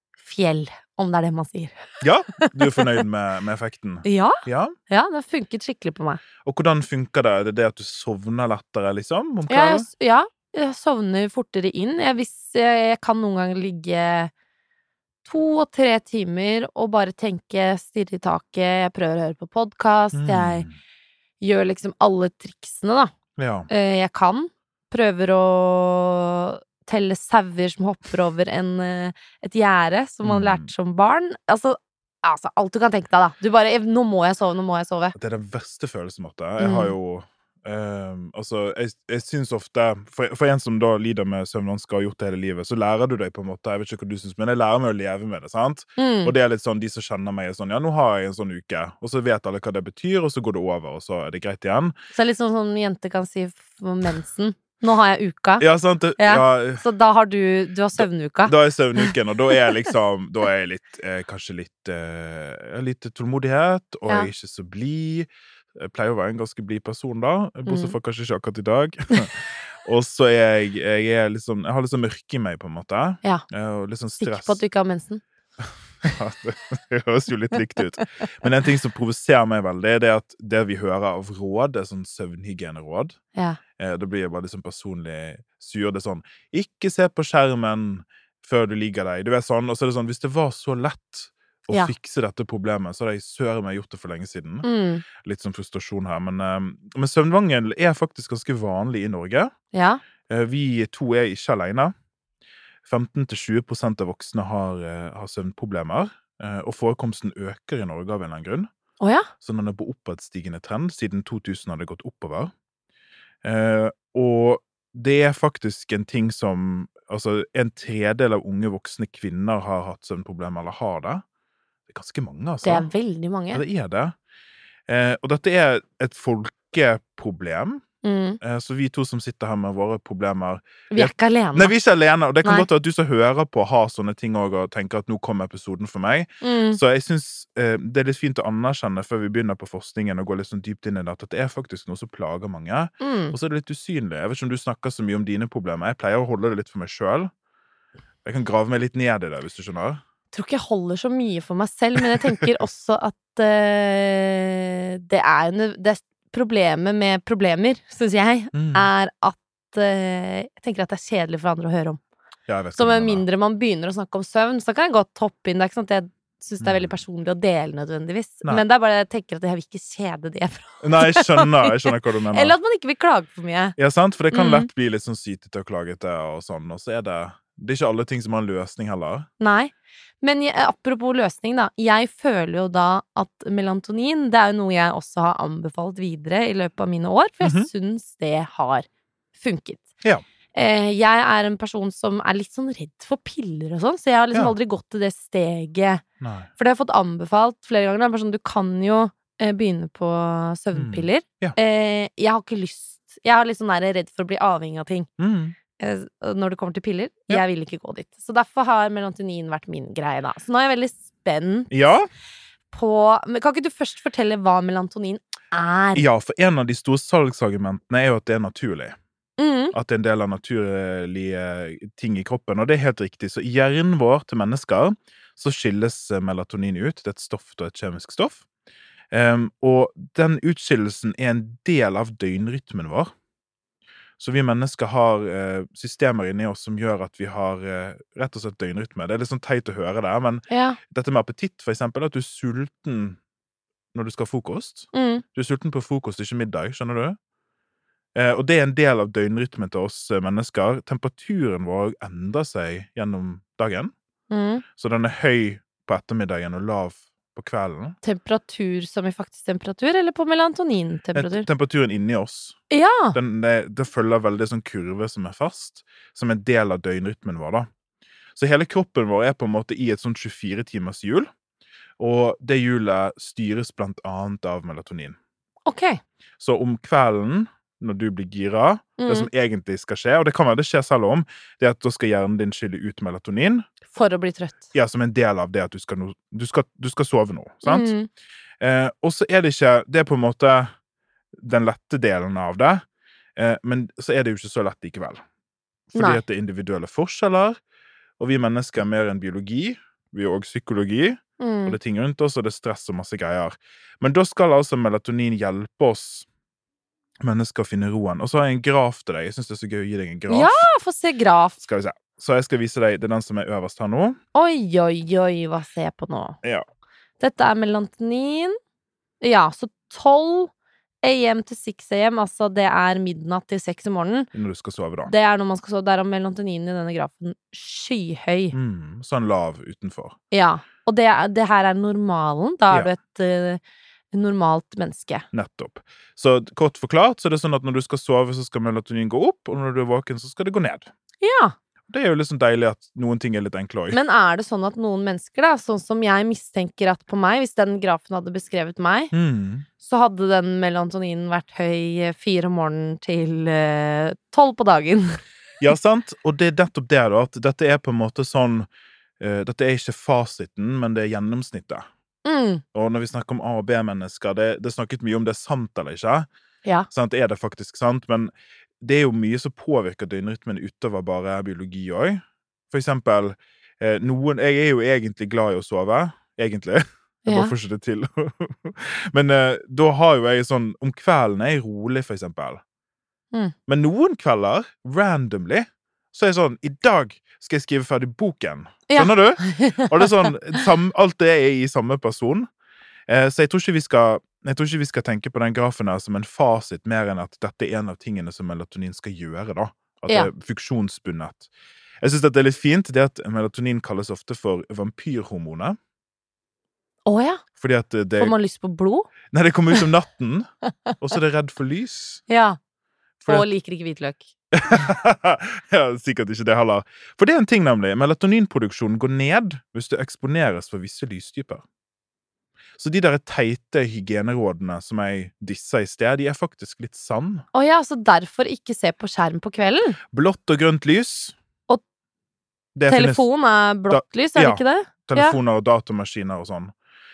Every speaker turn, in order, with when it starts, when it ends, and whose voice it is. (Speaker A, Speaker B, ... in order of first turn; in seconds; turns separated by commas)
Speaker A: 0.2-3.0, Speaker B: 2.0-4.8, Speaker A: 4.0-6.2, Speaker B: 6.4-9.9, Speaker A: 9.5-14.3, Speaker A: 15.2-20.7, Speaker B: 20.1-20.8, Speaker A: 21.4-23.1, Speaker B: 23.4-23.7, Speaker A: 23.7-35.1, Speaker B: 30.2-30.7, Speaker B: 35.1-51.9, Speaker A: 36.6-37.0, Speaker A: 46.0-46.3, Speaker A: 52.1-55.6, Speaker B: 55.6-56.8, Speaker A: 56.2-59.7, Speaker B: 58.0-74.6, Speaker A: 67.7-68.0, Speaker A: 74.2-75.2, Speaker B: 76.1-83.2, Speaker A: 83.3-83.6, Speaker B: 83.8-94.7, Speaker A: 94.6-95.0, Speaker B: 95.2-99.5, Speaker A: 99.7-100.0, Speaker B: 100.3-101.9, Speaker B: 102.8-108.7, Speaker A: 109.0-109.3, Speaker B: 109.4-112.5, Speaker B: 113.4-121.2, Speaker B: 121.9-122.9, Speaker A: 122.6-123.6, Speaker B: 123.5-124.2, Speaker B: 124.9-127.8, Speaker A: 128.0-128.4, Speaker B: 128.4-147.3, Speaker A: 130.9-131.7, Speaker A: 136.4-136.8, Speaker A: 143.0-143.3, Speaker B: 148.2-150.0, Speaker A: 150.3-162.0, Speaker B: 158.5-158.9, Speaker B: 162.5-163.2, Speaker A: 162.8-173.8, Speaker B: 166.6-166.9, Speaker B: 170.8-172.6, Speaker B: 173.8-179.3, Speaker A: 174.3-174.7, Speaker A: 179.4-189.9, Speaker B: 187.4-187.7, Speaker A: 190.5-196.0, Speaker B: 196.2-196.5, Speaker A: 196.6-205.1, Speaker B: 200.7-201.6, Speaker B: 205.2-205.6, Speaker A: 205.8-211.7, Speaker B: 211.7-212.1, Speaker A: 212.7-216.1, Speaker B: 215.9-219.0, Speaker A: 219.4-219.8, Speaker B: 219.7-228.4, Speaker B: 229.1-233.1, Speaker B: 234.2-243.2, Speaker A: 240.5-240.8, Speaker B: 243.9-247.2, Speaker A: 244.9-245.2, Speaker B: 248.2-253.9, Speaker A: 254.3-254.6, Speaker B: 254.8-258.0, Speaker A: 258.0-261.5, Speaker B: 261.1-262.6, Speaker A: 262.7-263.2, Speaker B: 263.1-267.7, Speaker B: 268.4-271.3, Speaker B: 272.0-275.2, Speaker A: 275.7-276.0, Speaker B: 276.4-283.7, Speaker A: 279.0-279.3, Speaker A: 283.9-284.6, Speaker B: 284.7-287.9, Speaker A: 287.6-288.1, Speaker B: 288.6-290.7, Speaker B: 291.4-292.8, Speaker B: 293.4-295.2, Speaker B: 295.9-297.6, Speaker A: 295.9-296.2, Speaker B: 298.2-306.3, Speaker A: 301.4-301.8, Speaker B: 307.2-310.7, Speaker A: 310.3-311.6, Speaker B: 311.6-314.2, Speaker A: 314.3-316.4, Speaker A: 317.2-318.6, Speaker A: 319.2-320.5, Speaker A: 321.0-324.3, Speaker B: 324.3-325.1, Speaker A: 325.1-328.6, Speaker B: 328.5-330.2, Speaker A: 330.3-333.6, Speaker A: 334.1-335.2, Speaker B: 335.3-340.9, Speaker A: 341.2-341.6, Speaker B: 341.9-344.0, Speaker A: 343.9-349.1, Speaker B: 349.1-349.7, Speaker A: 349.8-355.2, Speaker B: 355.6-358.7, Speaker B: 359.2-361.9, Speaker A: 362.2-362.6, Speaker B: 362.7-366.3, Speaker B: 366.9-382.6, Speaker A: 377.2-377.5, Speaker B: 383.7-392.5, Speaker A: 388.9-390.6, Speaker B: 393.1-401.5, Speaker B: 402.0-405.8, Speaker A: 407.1-407.4, Speaker B: 407.6-408.4, Speaker A: 408.2-409.1, Speaker B: 409.3-410.5, Speaker B: 411.0-412.2, Speaker A: 412.3-412.6, Speaker B: 413.2-413.5, Speaker A: 413.3-414.3, Speaker B: 414.5-421.6, Speaker B: 422.8-427.4, Speaker A: 427.5-430.0, Speaker B: 430.1-431.4, Speaker B: 432.8-433.3, Speaker A: 432.9-435.4, Speaker B: 433.9-436.7